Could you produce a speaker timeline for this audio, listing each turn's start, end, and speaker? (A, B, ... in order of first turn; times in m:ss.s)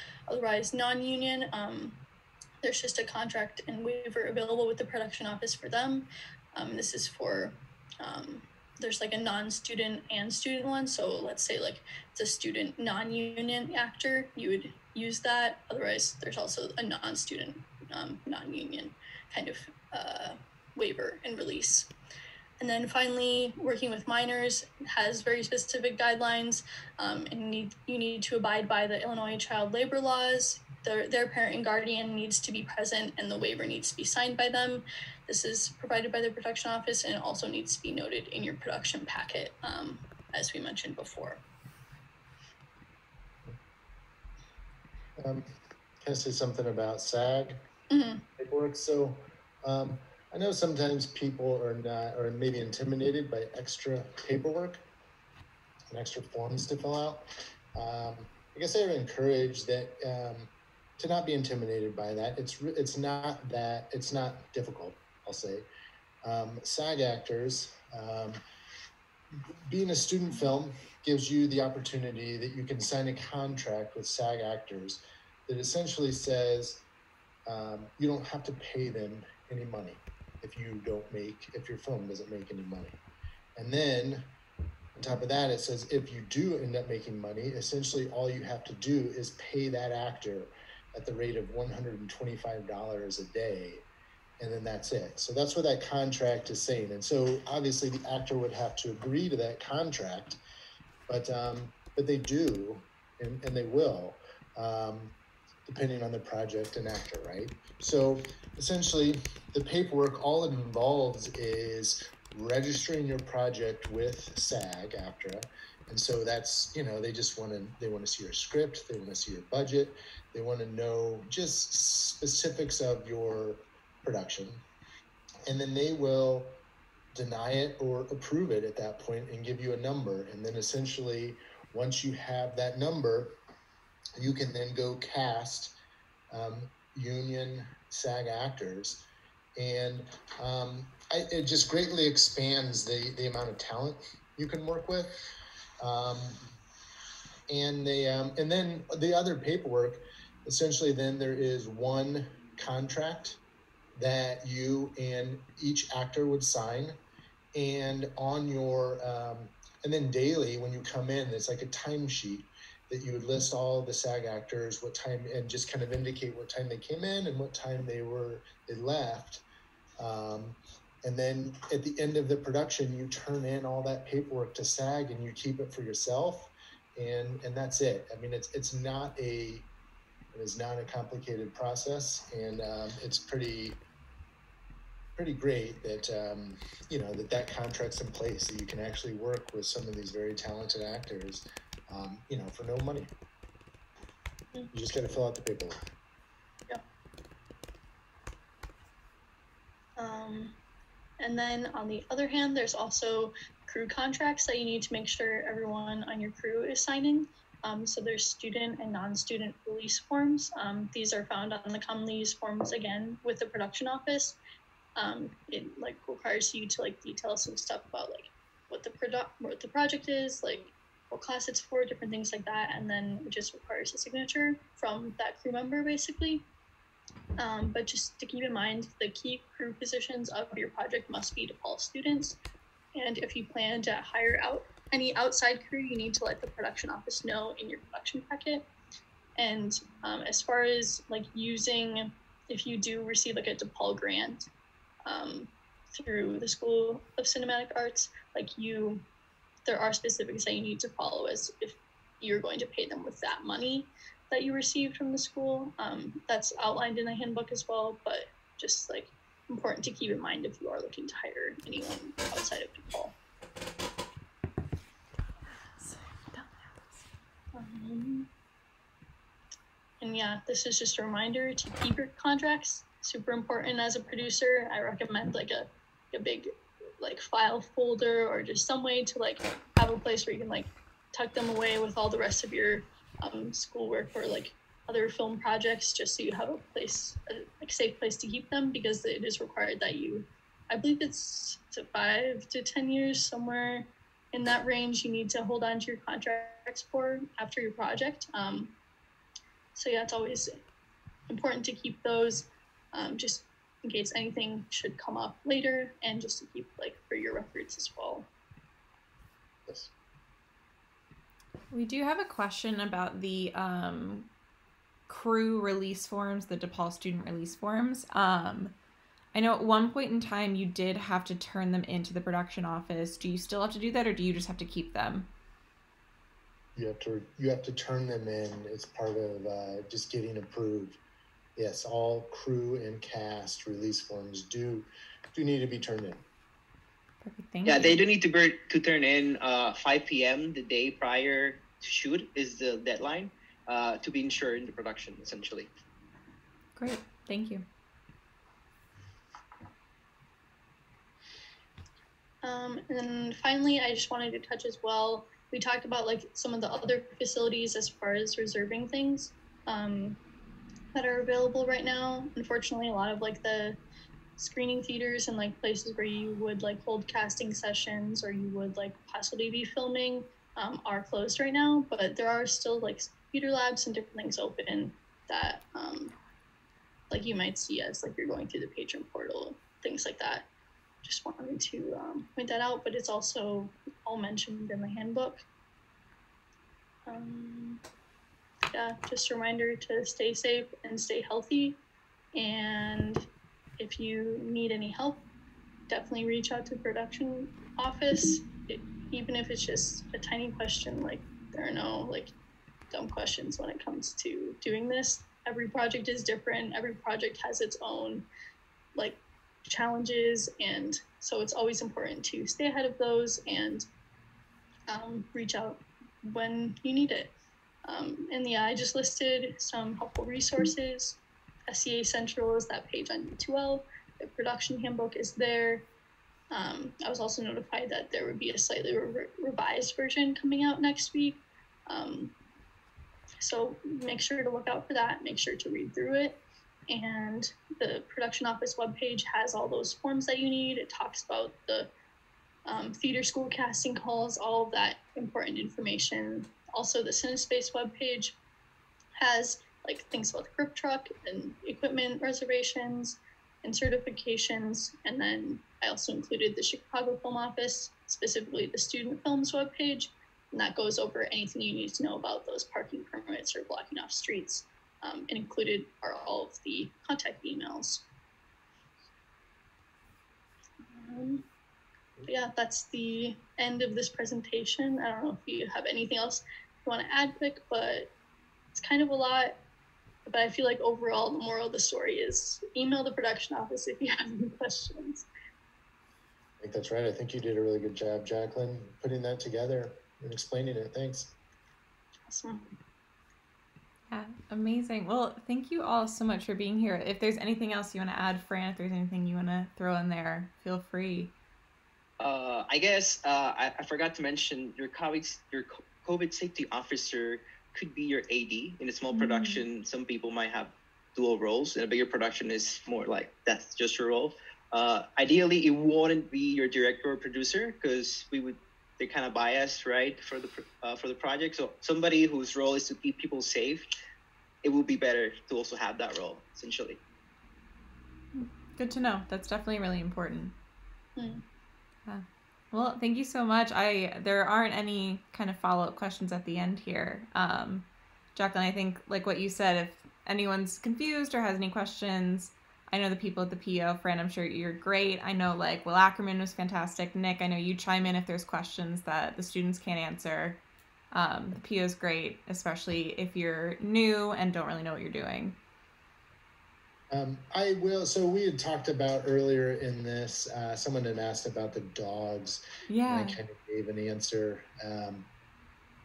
0:00.3-0:02.0 A
0:02.6-0:21.9 A
0:22.6-0:41.4 A
0:45.2-0:45.5 B
0:46.0-0:47.6 B
0:47.9-0:48.2 A
0:48.4-0:54.8 B
0:55.9-1:05.7 B
1:06.2-1:08.4 B
1:09.3-1:16.8 B
1:17.5-1:23.0 B
1:23.6-1:24.3 B
1:25.0-1:33.8 B
1:34.4-1:40.4 B
1:41.1-1:45.1 B
1:45.7-2:04.6 B
2:05.4-2:06.6 B
2:07.1-2:13.3 B
2:14.2-2:15.7 B
2:16.3-2:19.0 B
2:19.6-2:25.1 B
2:25.8-2:26.4 B
2:27.5-2:33.4 B
2:34.0-2:37.0 B
2:37.5-2:49.4 B
2:50.0-2:59.7 B
3:00.3-3:03.8 B
3:05.2-3:13.1 B
3:14.7-3:15.7 B
3:20.0-3:20.5 A
3:21.2-3:34.4 A
3:35.0-3:46.4 A
3:47.4-3:52.4 A
3:52.9-3:58.6 A
3:59.4-4:04.4 A
4:05.0-4:09.0 A
4:09.6-4:23.1 A
4:25.5-4:27.0 C
4:27.5-4:28.3 A
4:30.0-4:58.7 A
4:59.7-5:00.6 A
5:01.3-5:08.3 A
5:11.7-5:14.3 C
5:15.1-5:18.7 C
5:19.3-5:25.3 C
5:26.7-5:31.0 B
5:31.6-5:36.2 B
5:37.2-5:38.0 C
5:37.6-5:45.7 D
5:46.8-5:47.6 C
5:52.4-6:00.2 A
6:00.9-6:03.8 A
6:04.4-6:16.1 A
6:17.1-6:20.4 A
6:21.0-6:25.4 A
6:27.0-6:27.8 A
6:28.7-6:31.8 A
6:32.3-6:33.2 A
6:33.8-6:35.2 A
6:35.9-6:42.3 A
6:42.9-6:48.2 A
6:48.9-6:53.8 A
6:54.9-6:57.3 A
6:57.8-7:05.8 A
7:06.5-7:12.3 A
7:13.4-7:16.4 A
7:16.9-7:21.9 A
7:22.6-7:28.4 A
7:29.2-7:48.0 A
7:50.8-7:51.4 A
7:52.2-7:58.1 A
7:58.7-7:59.6 A
8:00.2-8:05.2 A
8:06.6-8:11.3 B
8:12.3-8:12.8 A
8:14.1-8:21.3 C
8:22.2-8:43.9 D
8:29.1-8:29.6 C
8:44.6-8:47.0 D
8:48.3-8:50.5 C
8:51.2-8:51.4 A
8:52.1-9:10.6 C
9:11.1-9:15.6 C
9:17.1-9:25.3 B
9:22.9-9:23.4 C